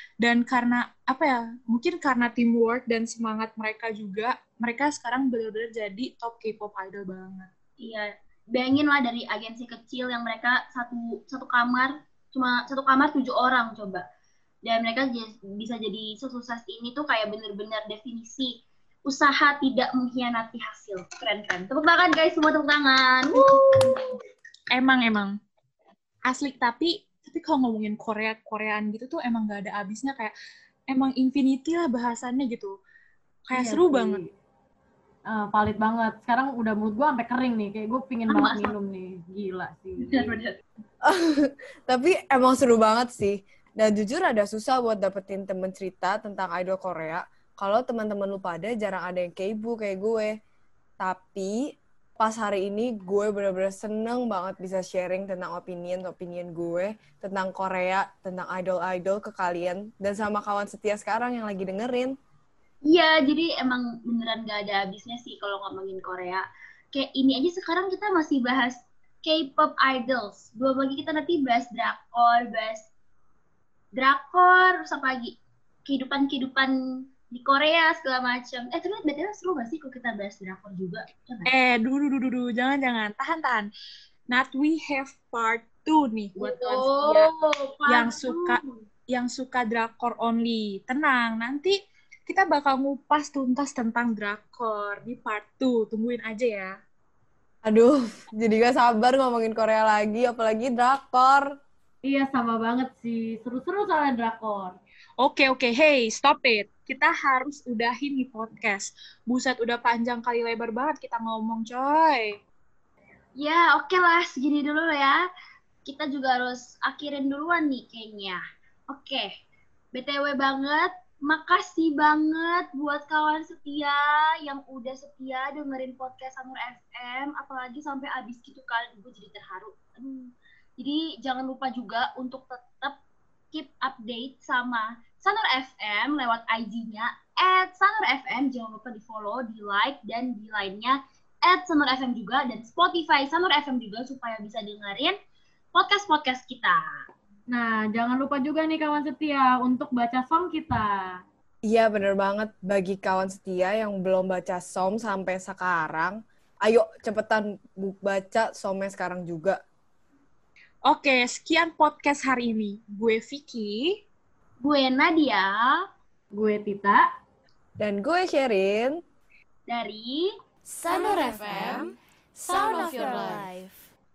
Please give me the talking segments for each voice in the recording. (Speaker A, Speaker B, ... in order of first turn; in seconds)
Speaker A: 0.2-7.5, 23.3-24.1, 24.7-25.4, 26.3-30.3, 30.9-32.8, 33.5-34.2, 81.5-83.7, 84.3-87.3, 87.9-91.7, 92.3-96.8, 105.2-112.3, 160.9-163.9
Speaker B: 7.8-14.0, 14.7-18.5, 19.1-23.9, 38.3-38.7, 40.0-40.5, 62.9-72.9, 73.9-76.7, 77.3-81.5, 86.4-88.8, 113.4-115.2, 115.9-119.3, 119.9-133.0, 133.5-145.2, 145.8-146.8, 164.6-165.5, 169.7-170.3
Speaker C: 33.5-34.2, 35.3-40.3, 102.0-104.8, 147.5-150.9, 166.3-167.1
Speaker D: 41.0-50.4, 51.0-51.6, 52.2-62.1, 97.7-101.5, 151.7-159.6, 167.8-169.0
Speaker E: 170.7-173.9